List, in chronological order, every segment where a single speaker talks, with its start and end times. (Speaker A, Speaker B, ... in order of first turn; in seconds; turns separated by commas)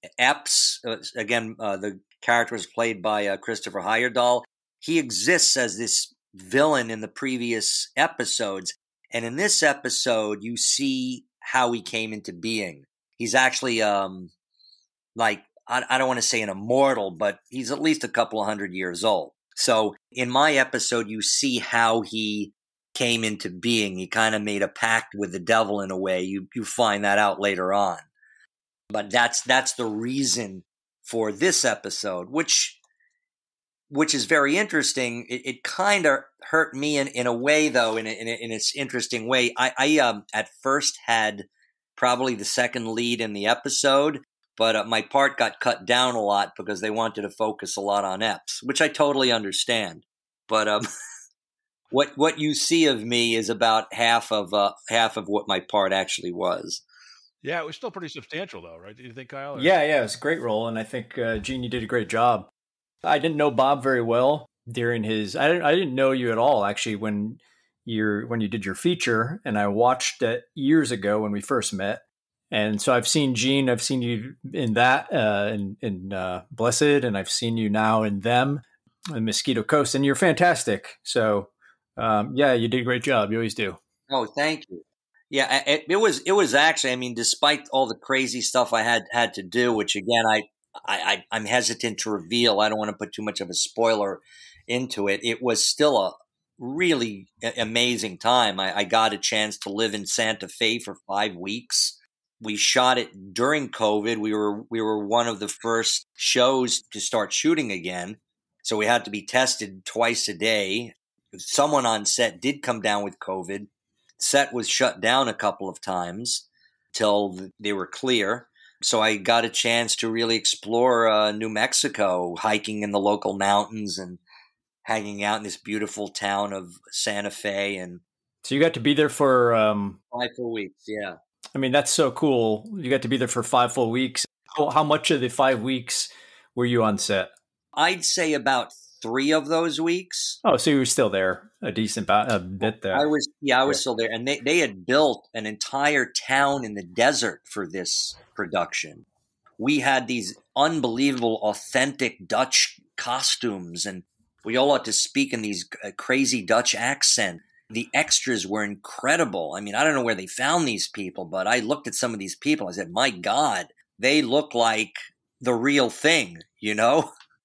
Speaker A: 0.2-14.3, Speaker A: 15.2-28.1, Speaker A: 28.9-32.8, Speaker A: 33.9-50.9, Speaker A: 51.9-56.8, Speaker B: 57.4-59.7, Speaker C: 59.5-62.5, Speaker C: 63.0-83.8, Speaker A: 84.1-113.7, Speaker A: 114.2-124.2, Speaker A: 124.8-128.0, Speaker C: 128.4-130.0, Speaker A: 130.1-131.2, Speaker C: 131.5-137.3, Speaker A: 137.8-140.4, Speaker C: 140.4-143.1, Speaker A: 142.9-149.1, Speaker A: 149.6-167.1